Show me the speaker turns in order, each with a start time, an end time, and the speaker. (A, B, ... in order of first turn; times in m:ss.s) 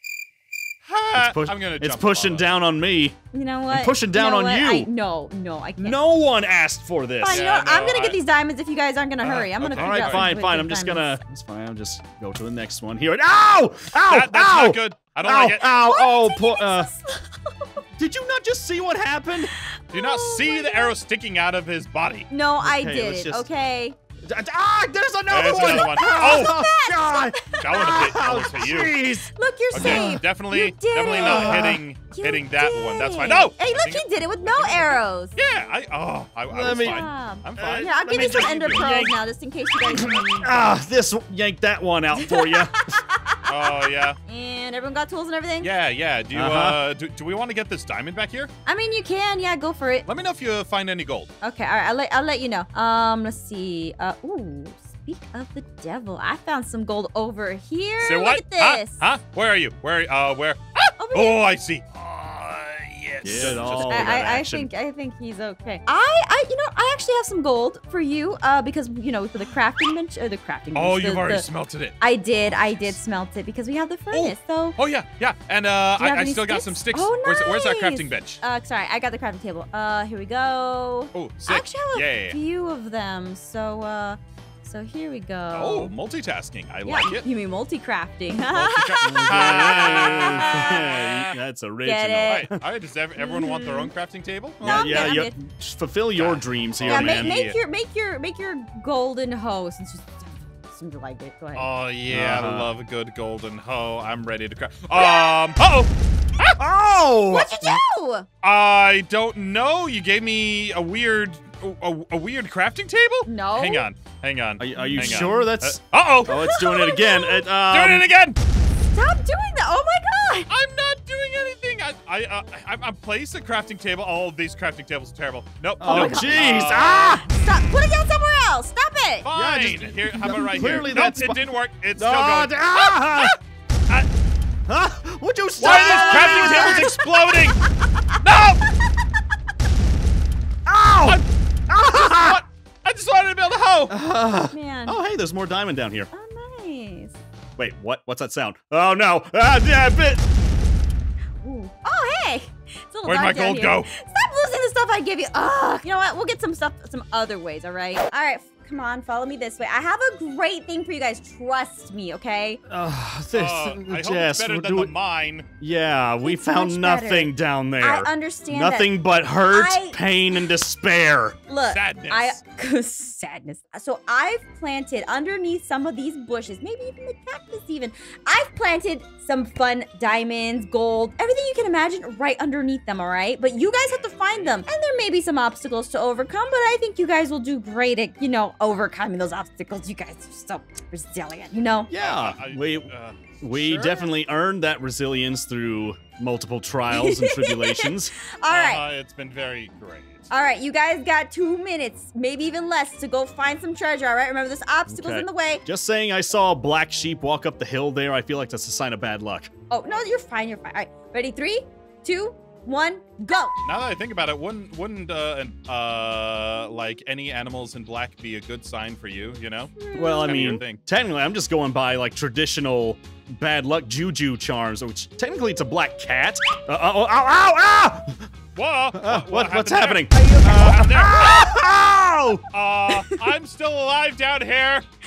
0:00.9-0:02.5 A
0:01.1-0:03.2 B
0:03.3-0:06.0 C
0:03.7-0:04.9 B
0:05.8-0:07.4 B
0:07.2-0:11.2 C
0:07.3-0:08.2 A
0:09.2-0:10.3 A
0:09.7-0:16.9 B
0:14.1-0:15.7 A
0:15.7-0:17.8 C
0:18.0-0:19.5 B
0:19.5-0:21.0 C
0:19.9-0:22.3 A
0:22.3-0:24.0 C
0:22.6-0:23.5 B
0:24.2-0:30.2 B
0:25.3-0:26.6 A
0:25.6-0:28.0 C
0:27.6-0:29.0 A
0:29.3-0:35.4 C
0:29.7-0:39.1 A
0:31.1-0:31.8 B
0:36.5-0:39.1 B
0:36.8-0:40.6 C
0:39.9-0:43.0 B
0:40.0-0:40.5 A
0:42.2-0:45.7 C
0:43.5-0:44.2 A
0:45.6-0:48.5 A
0:46.3-0:46.8 B
0:48.7-0:50.1 C
0:50.1-0:51.3 A
0:51.4-0:59.0 C
0:58.0-1:04.1 A
1:01.0-1:01.4 C
1:03.2-1:04.7 B
1:03.3-1:11.5 C
1:10.7-1:12.0 A
1:12.0-1:14.8 C
1:14.1-1:18.4 A
1:16.0-1:25.9 C
1:21.1-1:22.4 A
1:25.5-1:27.3 A
1:26.8-1:31.0 C
1:28.5-1:31.3 A
1:29.0-1:32.6 B
1:31.8-1:32.5 C
1:32.2-1:35.1 A
1:33.2-1:33.9 C
1:34.6-1:35.4 C
1:34.6-1:37.4 B
1:36.1-1:37.6 A
1:36.9-1:41.7 C
1:41.6-1:46.6 A
1:42.1-1:42.7 B
1:44.9-1:45.5 C
1:46.6-1:47.8 B
1:47.3-1:48.3 C
1:48.4-1:56.4 A
1:53.3-1:53.8 C
1:54.6-1:58.0 B
1:54.8-1:55.5 C
1:56.3-1:57.5 C
1:57.6-1:58.4 A
1:58.7-2:00.5 C
2:00.5-2:07.8 A
2:05.8-2:06.6 C
2:05.8-2:07.3 B
2:07.2-2:09.3 C
2:09.2-2:13.4 A
2:09.3-2:11.4 B
2:10.1-2:10.8 C
2:12.0-2:13.4 B
2:14.7-2:17.0 B
2:15.6-2:17.6 A
2:15.6-2:18.7 C
2:18.2-2:18.7 A
2:20.7-2:22.4 B
2:21.0-2:23.9 A
2:23.9-2:26.1 B
2:24.5-2:25.0 C
2:26.1-2:27.2 C
2:27.6-2:30.2 B
2:31.4-2:42.6 C
2:33.1-2:33.9 A
2:42.7-2:44.9 B
2:43.3-2:45.5 A
2:45.6-2:51.4 B
2:46.2-2:49.0 C
2:49.5-2:50.0 C
2:51.5-3:11.9 C
2:51.7-2:52.4 A
3:03.7-3:04.6 A
3:11.9-3:12.9 B
3:11.9-3:14.1 A
3:13.4-3:18.1 B
3:16.9-3:18.8 C
3:18.5-3:20.3 A
3:20.3-3:25.6 C
3:24.9-3:29.5 B
3:29.7-3:33.6 C
3:33.6-3:40.8 A
3:39.8-3:40.4 C
3:40.0-3:48.3 B
3:48.6-3:51.5 A
3:48.9-3:52.4 B
3:50.1-3:51.7 C
3:52.5-3:54.8 A
3:52.9-3:53.3 C